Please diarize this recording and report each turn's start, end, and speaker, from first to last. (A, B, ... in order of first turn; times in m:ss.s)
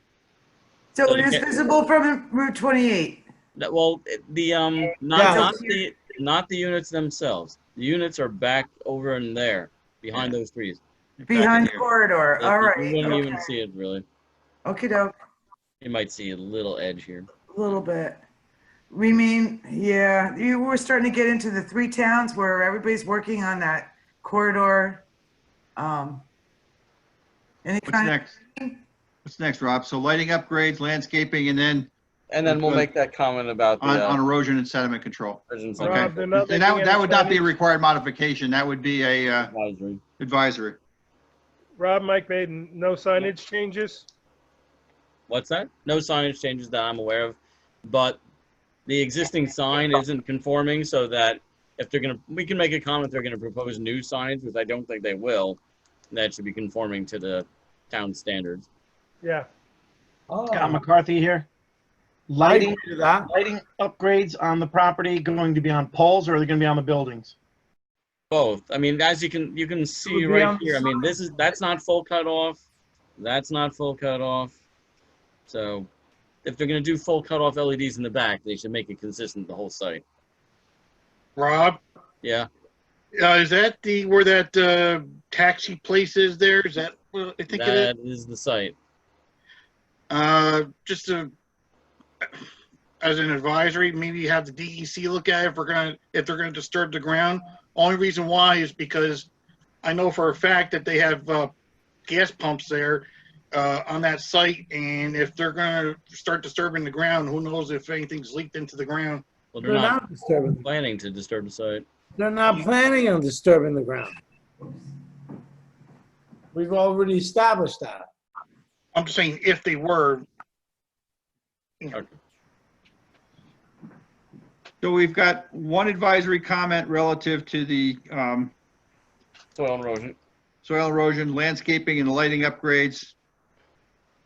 0:00.9-0:03.2 A
0:01.0-0:01.4 B
0:03.6-0:10.8 B
0:05.1-0:05.5 C
0:05.2-0:05.8 A
0:11.2-0:11.8 D
0:11.3-0:13.5 A
0:12.4-0:14.0 B
0:14.6-0:15.1 A
0:15.8-0:17.3 B
0:17.5-0:18.2 A
0:18.9-0:25.0 A
0:25.8-0:26.2 A
0:27.6-0:28.8 A
0:27.8-0:28.4 D
0:29.2-0:31.9 D
0:32.3-0:34.2 B
0:32.4-0:32.9 D
0:33.8-0:39.5 D
0:35.5-0:36.3 B
0:35.8-0:37.5 E
0:39.4-0:40.0 B
0:40.2-0:40.8 D
0:41.8-0:44.1 E
0:45.3-0:48.2 B
0:48.8-0:55.6 B
0:56.1-0:58.6 B
0:59.2-0:59.5 E
1:00.3-1:00.8 C
1:00.5-1:01.5 F
1:02.3-1:07.3 F
1:02.4-1:03.3 C
1:08.3-1:12.6 B
1:10.0-1:11.3 C
1:13.2-1:14.5 B
1:15.5-1:15.9 B
1:16.4-1:20.0 B
1:21.4-1:21.8 G
1:22.2-1:22.5 B
1:23.2-1:27.9 G
1:27.5-1:28.7 B
1:30.1-1:31.3 G
1:33.0-1:39.3 G
1:39.8-1:41.5 G
1:42.1-1:49.2 G
1:49.5-1:50.0 B
1:49.6-1:50.7 C
1:50.6-1:51.8 B
1:52.2-1:54.2 C
1:56.5-1:58.1 C
1:58.9-2:00.2 G
2:04.8-2:08.5 D
2:09.6-2:10.2 B
2:10.6-2:13.1 D